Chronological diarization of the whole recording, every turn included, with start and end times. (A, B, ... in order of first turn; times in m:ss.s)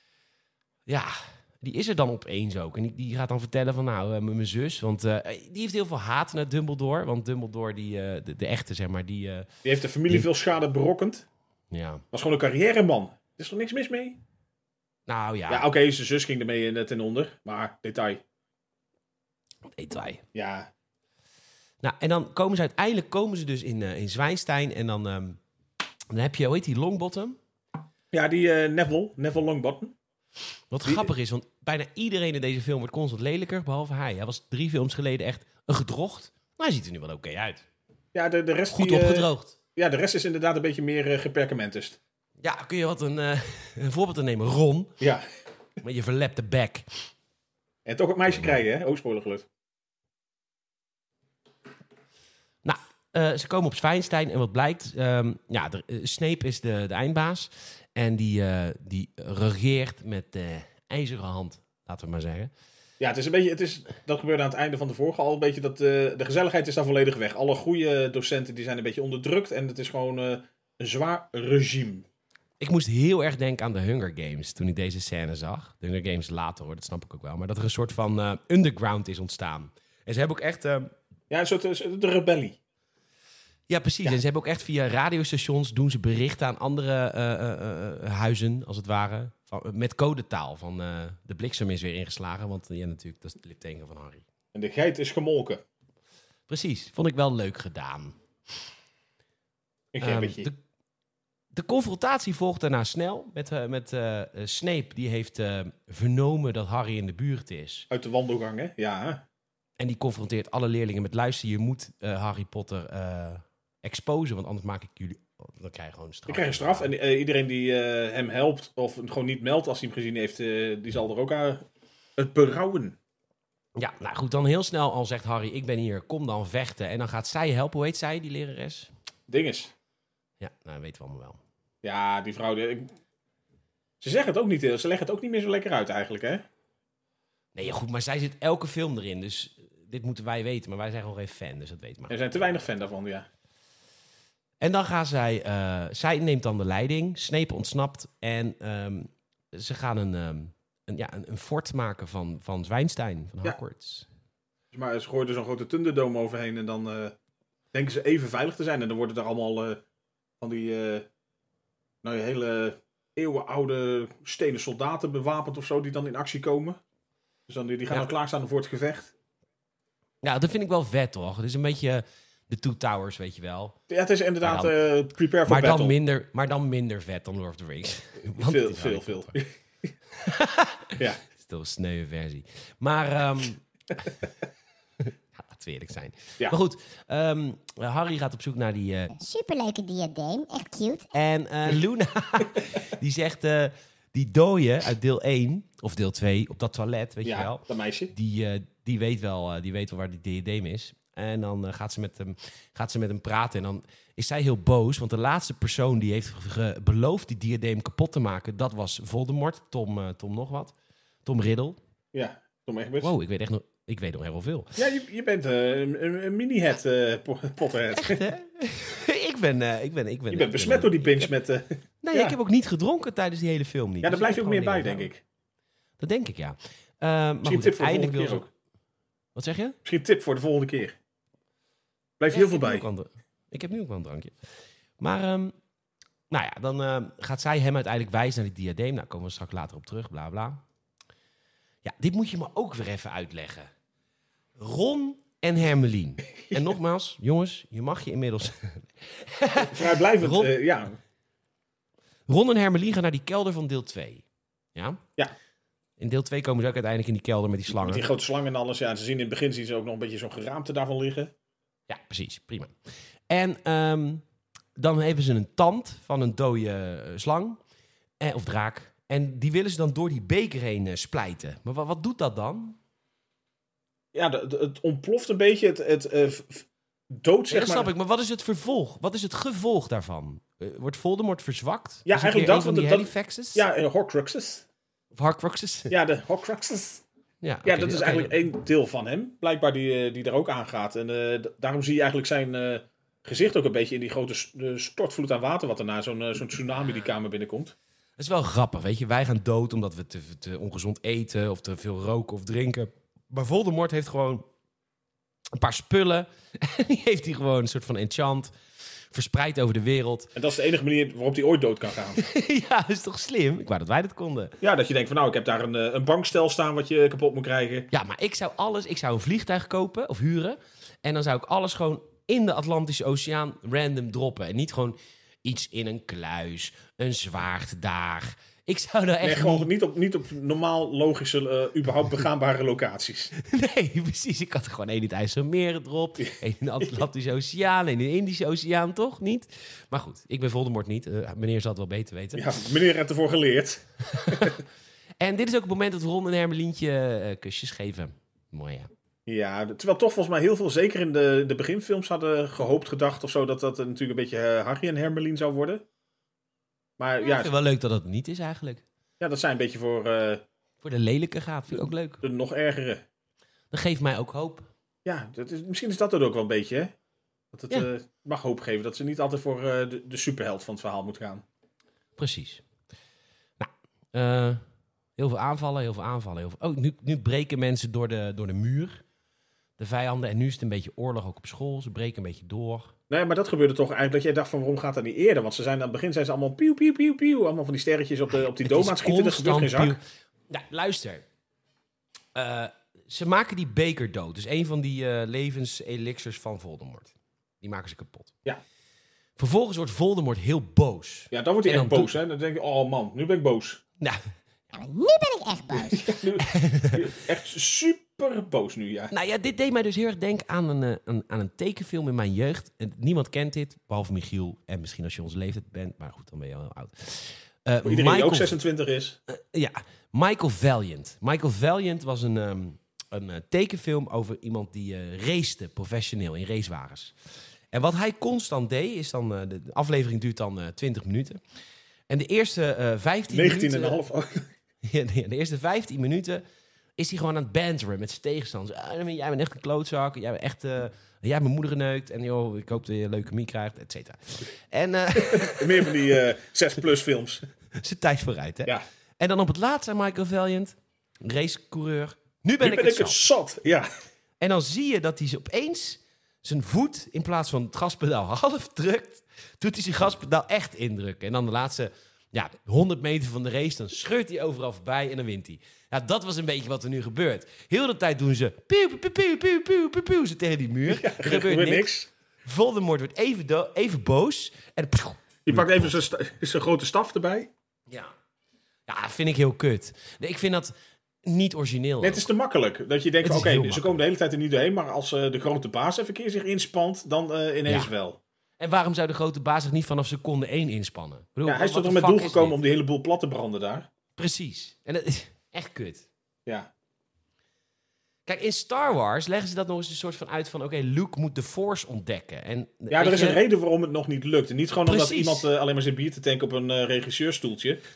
0:00.9-0:09.5 A
0:09.6-0:11.3 B
0:11.7-0:12.0 A
0:12.1-0:14.2 B
0:15.1-0:15.7 A
0:15.5-0:18.2 B
0:19.8-0:20.2 A
0:20.3-0:20.7 B
0:21.8-0:25.4 A
0:26.1-0:27.4 A
0:28.1-0:30.0 B
0:30.7-0:37.6 A
0:38.1-0:42.0 B
0:38.7-0:39.6 A
0:42.4-0:45.0 A
0:45.0-0:45.3 B
0:45.8-0:47.1 A
0:47.8-0:49.5 B
0:52.6-1:02.5 A
1:03.0-1:12.1 B
1:12.6-1:20.9 A
1:21.3-1:22.6 B
1:23.7-1:34.2 A
1:34.5-1:35.6 B
1:36.5-1:38.2 A
1:39.9-1:40.5 B
1:40.0-1:40.6 A
1:41.5-1:47.9 A
1:47.9-1:49.2 B
1:49.8-1:56.9 A
1:56.3-2:01.6 B
2:02.2-2:03.0 B
2:03.8-2:08.9 A
2:09.3-2:09.7 B
2:10.4-2:11.4 A
2:11.8-2:12.9 B
2:14.0-2:16.4 B
2:17.6-2:22.2 A
2:22.1-2:23.3 B
2:24.6-2:34.1 A
2:34.7-2:37.2 B
2:37.7-2:39.8 B
2:40.4-2:41.1 B
2:42.0-2:46.8 B
2:47.5-2:49.1 B
2:50.2-2:53.8 A
2:53.9-2:56.0 B
2:54.4-2:54.7 A
2:55.5-2:59.4 A
2:58.4-2:59.5 B
3:00.2-3:04.1 A
3:05.0-3:09.1 A
3:09.2-3:11.1 C
3:11.1-3:30.7 A
3:17.2-3:18.1 B
3:31.2-3:31.8 A
3:32.1-3:33.1 B
3:33.0-3:34.8 A
3:34.8-3:38.2 B
3:37.9-3:41.3 A
3:40.3-3:42.4 B
3:42.0-3:45.1 A
3:44.0-3:45.2 B
3:46.0-3:48.5 A
3:47.4-3:48.5 B
3:49.4-3:49.8 A
3:49.8-3:51.0 B
3:52.2-3:52.9 B
3:52.3-3:54.3 A
3:55.0-3:55.6 A
3:56.3-4:00.6 A
4:01.8-4:03.7 A
4:04.6-4:10.5 A
4:09.6-4:11.0 B
4:12.3-4:14.2 A
4:14.8-4:15.0 A
4:16.0-4:18.1 A
4:17.7-4:21.3 B
4:21.9-4:22.7 A
4:23.3-4:24.2 A
4:24.8-4:27.6 A
4:28.2-4:32.8 A
4:34.1-4:37.9 B
4:37.5-4:43.7 A
4:42.1-4:44.6 B
4:45.1-4:46.0 A
4:45.9-4:47.0 B
4:47.4-4:48.4 A
4:47.6-4:57.7 B
4:58.2-5:04.5 A
5:05.6-5:08.5 A
5:09.1-5:10.3 A
5:10.4-5:12.2 B
5:12.2-5:14.5 A
5:14.6-5:17.9 B
5:17.9-5:29.7 A
5:29.2-5:33.3 B
5:33.4-5:42.5 A
5:36.2-5:37.0 B
5:42.4-5:44.6 B
5:44.1-5:44.6 A
5:45.2-5:48.9 A
5:49.3-5:55.8 B
5:57.0-5:57.5 B
5:57.2-5:58.8 A
5:59.2-6:00.4 B
6:00.8-6:02.2 A
6:02.2-6:03.0 B
6:03.7-6:04.7 A
6:05.0-6:06.9 B
6:07.5-6:11.4 B
6:12.2-6:12.6 A
6:13.6-6:14.6 A
6:15.2-6:19.0 A
6:19.8-6:22.9 A
6:23.1-6:30.0 B
6:28.4-6:31.2 A
6:32.4-6:38.4 A
6:39.4-6:42.1 A
6:41.3-6:43.8 B
6:44.7-6:46.2 C
6:45.8-6:49.1 B
6:46.5-6:47.0 A
6:49.1-6:58.6 A
6:57.8-6:59.2 B
6:59.3-7:07.2 A
7:07.7-7:11.4 A
7:12.1-7:14.0 A
7:13.3-7:14.5 B
7:14.8-7:16.4 A
7:17.0-7:25.9 A
7:25.2-7:27.4 B
7:27.8-7:33.2 A
7:32.6-7:33.9 B
7:34.4-7:51.9 A
7:50.9-7:52.1 B
7:52.4-7:56.0 A
7:55.5-7:57.5 B
7:58.9-8:00.7 A
8:01.2-8:02.2 A
8:02.0-8:08.2 B
8:03.2-8:04.0 A
8:08.6-8:12.6 A
8:11.4-8:13.9 B
8:14.2-8:16.1 A
8:18.3-8:23.4 A
8:22.9-8:27.8 B
8:24.9-8:25.5 A